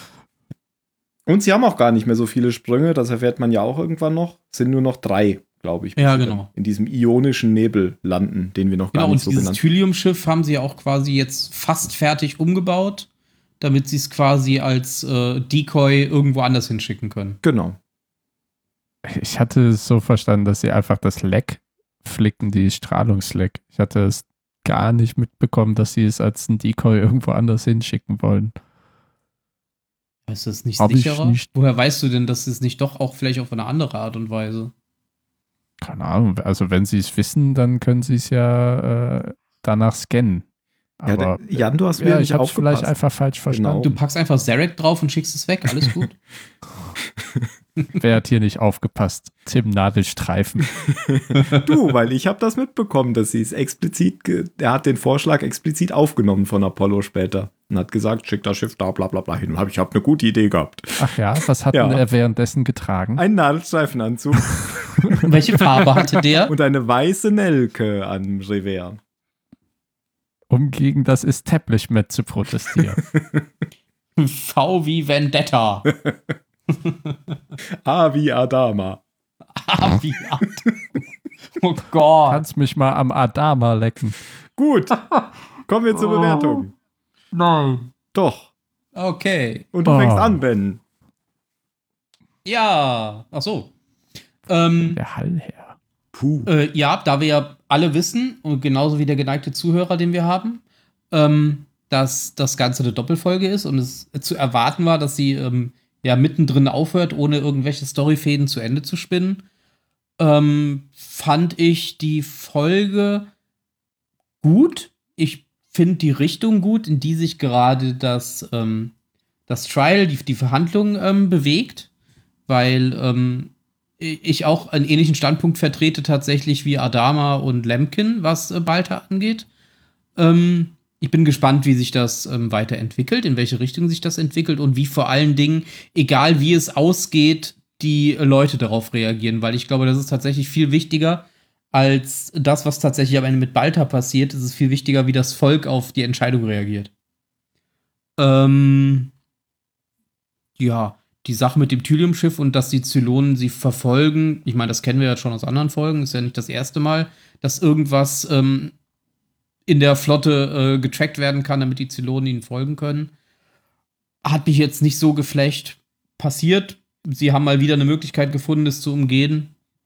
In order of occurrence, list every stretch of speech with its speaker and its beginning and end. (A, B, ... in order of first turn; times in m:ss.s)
0:01.3-0:09.6 A
0:06.0-0:06.5 B
0:08.9-0:13.1 B
0:13.6-0:17.4 B
0:17.4-0:17.8 A
0:19.0-0:28.5 C
0:30.3-0:34.7 B
0:30.8-0:31.5 C
0:35.8-0:40.4 C
0:41.0-0:43.9 C
0:41.1-0:42.9 A
0:43.5-0:43.9 A
0:43.8-0:46.2 B
0:48.0-0:50.8 C
0:51.1-1:01.2 A
1:01.0-1:03.2 C
1:01.7-1:02.0 A
1:03.2-1:05.2 A
1:05.2-1:06.5 B
1:06.5-1:09.0 A
1:10.5-1:13.0 C
1:13.0-1:13.4 A
1:14.2-1:15.9 B
1:16.8-1:17.1 B
1:17.8-1:19.0 A
1:19.6-1:20.7 B
1:21.6-1:22.4 B
1:22.3-1:24.2 C
1:24.6-1:25.0 A
1:25.7-1:26.7 A
1:26.2-1:26.6 C
1:27.5-1:27.8 B
1:28.1-1:28.5 A
1:29.0-1:29.7 B
1:29.7-1:30.8 A
1:29.8-1:30.4 C
1:32.4-1:33.7 B
1:34.5-1:35.0 B
1:34.9-1:35.8 C
1:36.1-1:36.5 A
1:36.5-1:49.4 B
1:50.2-1:53.3 B
1:54.4-1:58.9 B
1:59.5-2:01.9 B
2:02.5-2:09.5 B
2:10.2-2:26.9 B
2:28.2-2:29.1 B
2:30.6-2:38.7 B
2:39.7-2:43.1 B
2:44.2-2:49.5 B